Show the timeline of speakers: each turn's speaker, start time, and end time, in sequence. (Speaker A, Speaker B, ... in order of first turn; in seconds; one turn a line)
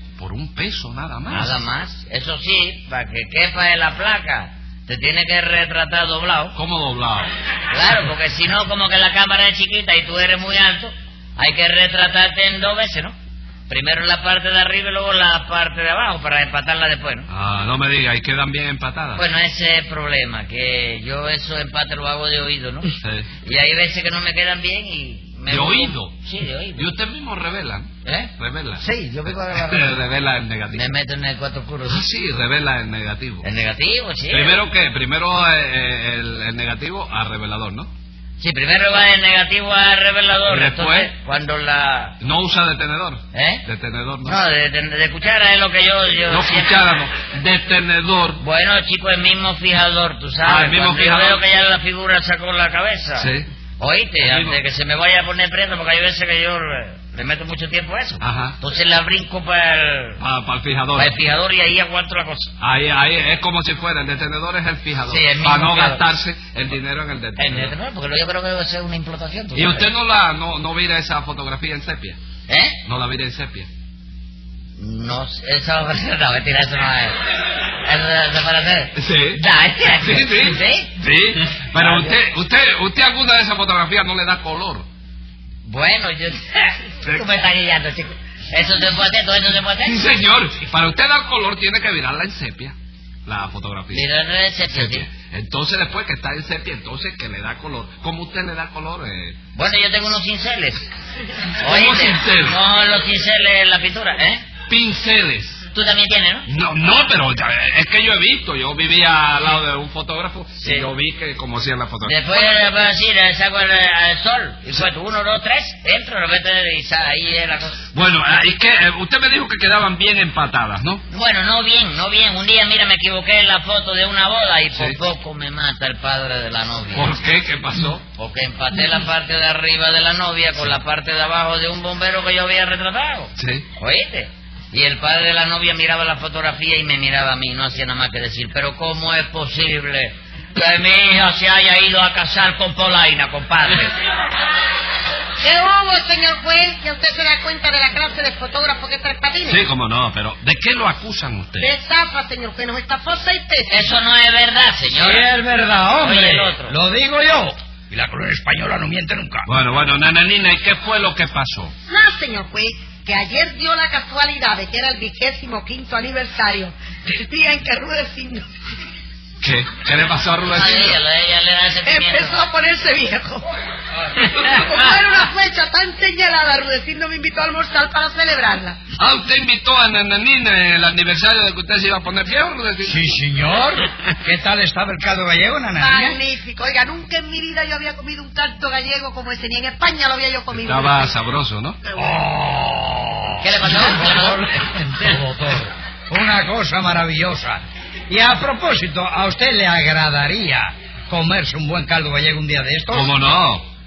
Speaker A: 0.2-1.5
Speaker B: 1.3-6.5
Speaker A: 6.5-7.3
Speaker B: 7.7-13.1
Speaker B: 13.7-17.3
Speaker A: 17.3-19.2
Speaker B: 19.1-22.9
Speaker A: 23.0-23.3
Speaker B: 23.4-26.9
Speaker A: 25.5-26.1
Speaker A: 26.8-28.8
Speaker B: 28.0-30.0
Speaker A: 29.5-30.9
Speaker B: 30.7-32.0
Speaker A: 31.9-33.4
Speaker B: 33.4-34.6
Speaker A: 34.3-37.9
Speaker B: 38.4-42.1
Speaker A: 40.5-41.1
Speaker A: 42.2-44.4
Speaker B: 43.3-43.6
Speaker B: 44.2-46.8
Speaker A: 46.3-48.4
Speaker B: 48.4-53.3
Speaker A: 50.4-51.4
Speaker A: 53.2-53.4
Speaker B: 53.8-60.2
Speaker A: 54.2-54.6
Speaker A: 58.2-58.5
Speaker A: 60.2-61.1
Speaker B: 61.0-62.5
Speaker A: 62.6-67.7
Speaker B: 65.1-66.0
Speaker B: 67.4-69.9
Speaker A: 69.5-72.2
Speaker B: 72.5-72.8
Speaker A: 72.8-73.7
Speaker B: 74.8-77.2
Speaker B: 77.8-80.9
Speaker A: 78.9-79.4
Speaker A: 80.0-84.8
Speaker B: 81.7-82.2
Speaker B: 85.6-90.0
Speaker A: 89.8-92.7
Speaker A: 93.2-94.0
Speaker B: 93.9-95.0
Speaker A: 94.7-99.4
Speaker B: 99.5-100.8
Speaker A: 101.6-102.6
Speaker B: 101.6-104.4
Speaker A: 104.7-105.6
Speaker B: 105.7-106.5
Speaker A: 106.5-112.7
Speaker B: 110.6-110.9
Speaker B: 112.0-117.8
Speaker A: 117.9-121.0
Speaker B: 121.1-127.2
Speaker A: 126.9-128.0
Speaker B: 128.2-143.9
Speaker A: 133.3-133.7
Speaker C: 145.4-149.6
Speaker A: 149.4-151.7
Speaker C: 151.6-153.8
Speaker B: 153.7-155.3
Speaker D: 154.9-159.4
Speaker B: 156.0-156.7
Speaker A: 159.4-161.7
Speaker C: 161.9-168.4
Speaker A: 169.4-171.0
Speaker B: 170.4-172.4
Speaker C: 171.8-173.4
Speaker C: 174.3-178.8
Speaker A: 179.0-183.1
Speaker D: 182.8-186.2
Speaker C: 185.8-191.1
Speaker A: 190.5-191.8
Speaker D: 191.9-203.1
Speaker B: 193.4-194.5
Speaker A: 202.9-203.6